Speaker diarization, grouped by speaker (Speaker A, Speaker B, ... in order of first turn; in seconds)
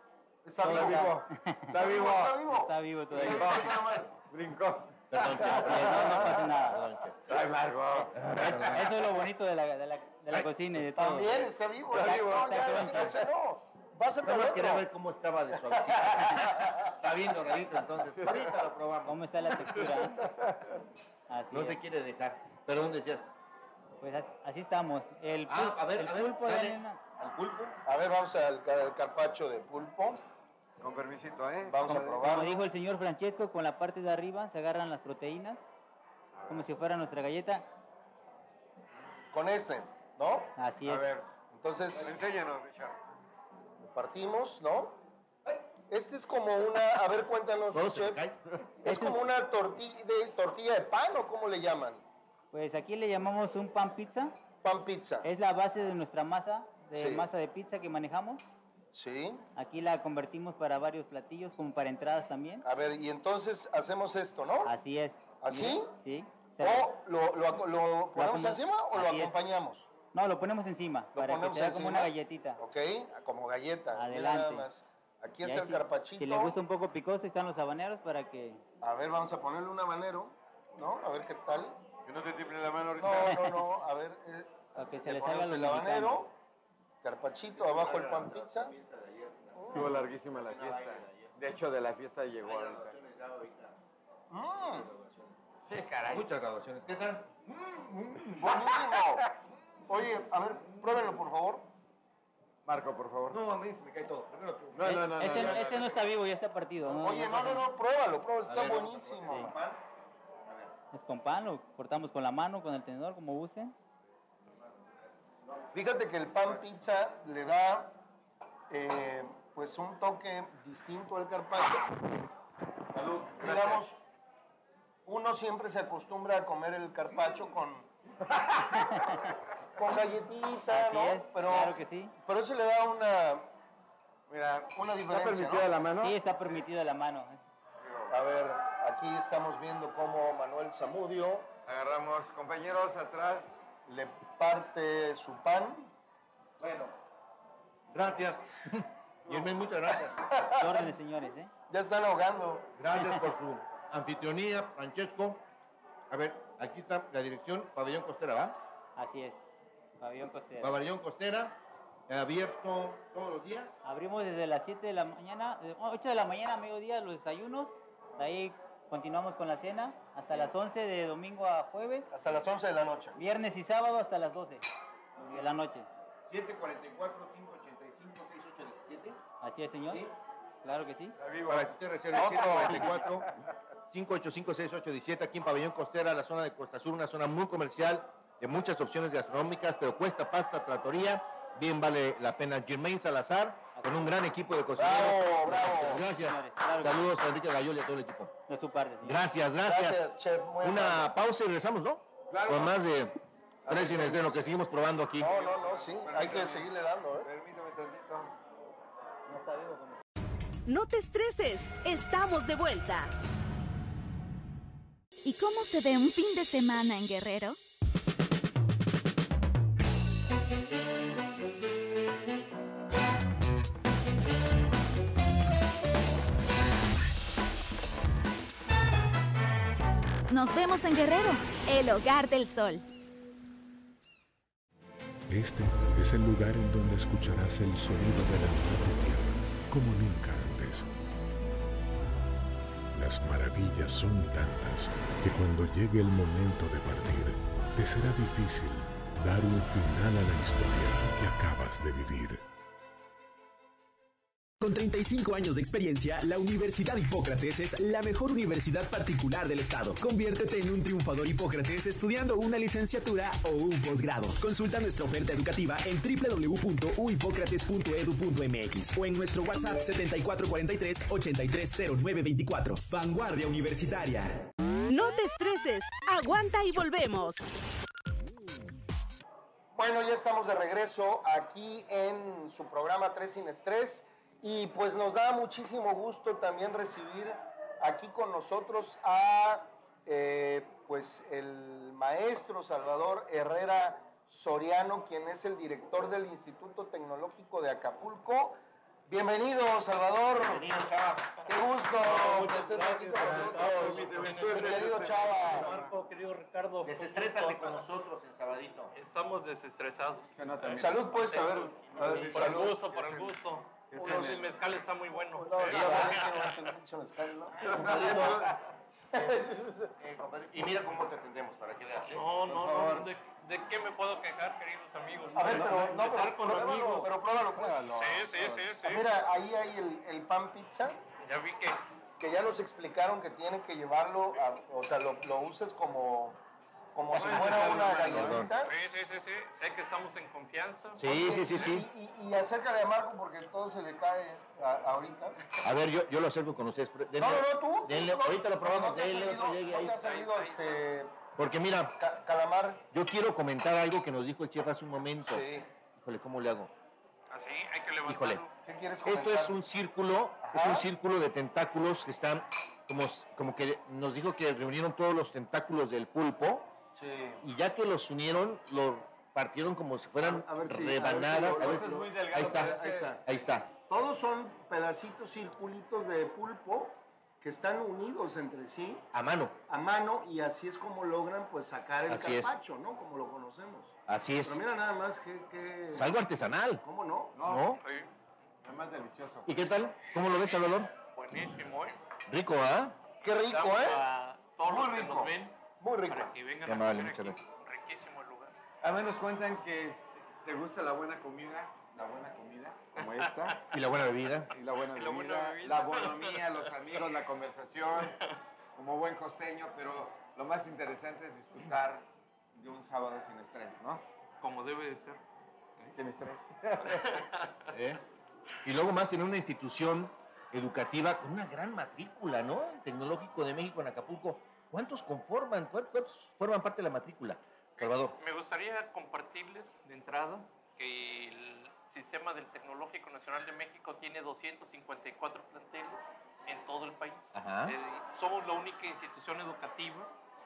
Speaker A: 0.4-1.1, 1.7-4.1, 10.8-14.9, 15.9-16.9, 27.9-30.2, 31.6-32.7, 39.3-42.1, 43.8-45.0, 45.9-48.3, 48.8-52.0, 54.6-55.3, 56.9-57.3, 58.9-59.4, 62.6-64.7, 65.4-65.9, 66.6-69.9, 71.1-76.6, 78.8-81.8, 83.0-86.3, 87.0-88.7, 94.3-94.9, 98.3-99.2, 99.9-101.7, 106.8-109.6, 115.7-118.0, 118.7-122.2, 123.4-124.0, 125.0-127.9, 129.8-133.5, 134.7-135.7, 138.1-141.5, 143.9-145.9, 150.2-150.9, 151.7-152.7, 172.1-173.2, 182.1-183.0, 194.8-196.0, 199.6-201.1, 205.2-207.3, 279.7-298.6, 299.1-300.7, 301.5-305.9, 310.7-312.9, 313.9-314.4, 315.4-318.6, 319.1-319.8, 325.3-331.0, 332.2-336.4, 336.9-338.7, 341.0-345.4, 347.2-351.1, 352.0-352.8, 355.2-355.7, 358.6-359.6, 360.4-360.9, 366.9-367.4, 370.2-373.2, 373.8-379.0, 379.7-386.2, 386.8-387.4, 393.2-394.0, 394.6-396.3
Speaker B: 0.6-1.8, 2.5-3.7, 5.4-6.8, 8.4-11.5, 12.5-13.1, 19.1-20.2, 21.3-21.8, 24.0-27.0, 31.9-35.6, 36.5-37.6, 40.6-41.1, 48.9-49.2, 52.5-54.3, 55.2-58.4, 59.5-62.6, 64.6-66.9, 68.1-69.3, 70.1-72.6, 73.9-74.7, 75.4-78.6, 83.2-83.6, 84.8-86.3, 104.8-107.6, 110.9-113.7, 128.9-129.2, 130.7-132.1, 136.0-137.4, 150.6-151.5, 158.9-159.4, 160.0-160.8, 163.8-172.1, 173.2-174.6, 175.2-175.9, 179.4-180.1, 180.6-181.2, 193.8-194.1, 195.9-197.1, 198.5-199.2, 209.3-209.9
Speaker C: 0.6-2.4, 3.1-6.4, 7.2-8.7, 11.9-13.2, 18.2-18.4, 20.1-20.8, 30.8-32.3, 40.9-41.2, 41.9-43.0, 82.0-83.5, 89.7-93.0, 95.6-96.3, 102.7-103.4, 104.7-106.0, 128.3-129.3, 134.3-136.2, 137.8-138.1, 141.7-143.5, 181.2-183.3, 202.3-202.8, 203.6-204.4, 205.2-208.3, 302.2-305.9, 310.3-311.3, 312.1-314.5, 315.7-316.0, 317.7-318.5, 322.4-323.1, 325.3-326.2, 337.1-338.3, 370.9-373.4, 387.3-387.8, 388.6-389.7, 398.8-403.6, 404.5-408.2, 408.7-414.0, 415.9-417.1
Speaker D: 5.1-7.4, 8.1-9.1, 14.2-20.1, 21.5-23.3, 25.5-27.8, 47.7-49.2, 87.5-91.4, 92.4-93.8, 94.6-95.4, 96.1-98.7, 103.3-106.1, 108.5-109.8, 110.4-110.7, 114.8-115.7, 123.0-123.8, 146.6-146.9, 147.9-150.3, 152.8-155.4, 156.1-158.6, 160.6-161.6, 162.1-163.7, 176.3-179.2, 181.5-183.3, 183.9-198.3, 199.0-205.4, 300.4-301.3, 302.1-303.7, 306.8-308.9, 311.9-312.7, 315.7-316.2, 317.6-318.6, 319.1-319.4, 320.0-322.2, 337.4-338.5, 341.0-341.9, 345.6-350.0, 351.4-352.0, 352.9-356.7, 358.0-358.4, 359.0-366.7, 367.4-373.7, 379.1-379.6, 382.1-382.5, 384.1-384.6, 385.9-386.8, 387.4-387.8, 389.4-390.9, 392.3-393.0, 396.6-397.4, 403.7-404.5, 417.7-418.0, 418.6-428.1, 437.3-437.8
Speaker E: 210.7-213.1, 274.9-277.5
Speaker F: 215.2-217.6, 230.3-232.8
Speaker G: 235.3-240.9, 242.9-252.4
Speaker H: 254.6-274.3
Speaker I: 302.1-307.9, 308.9-316.6, 322.1-327.1, 327.8-329.0, 331.2-331.8, 337.1-341.1, 349.9-350.9, 357.3-358.6, 387.8-388.1, 390.3-392.0, 393.5-395.6, 396.1-398.5, 403.0-403.7, 404.9-406.7, 414.4-415.2, 417.1-417.5, 427.8-440.1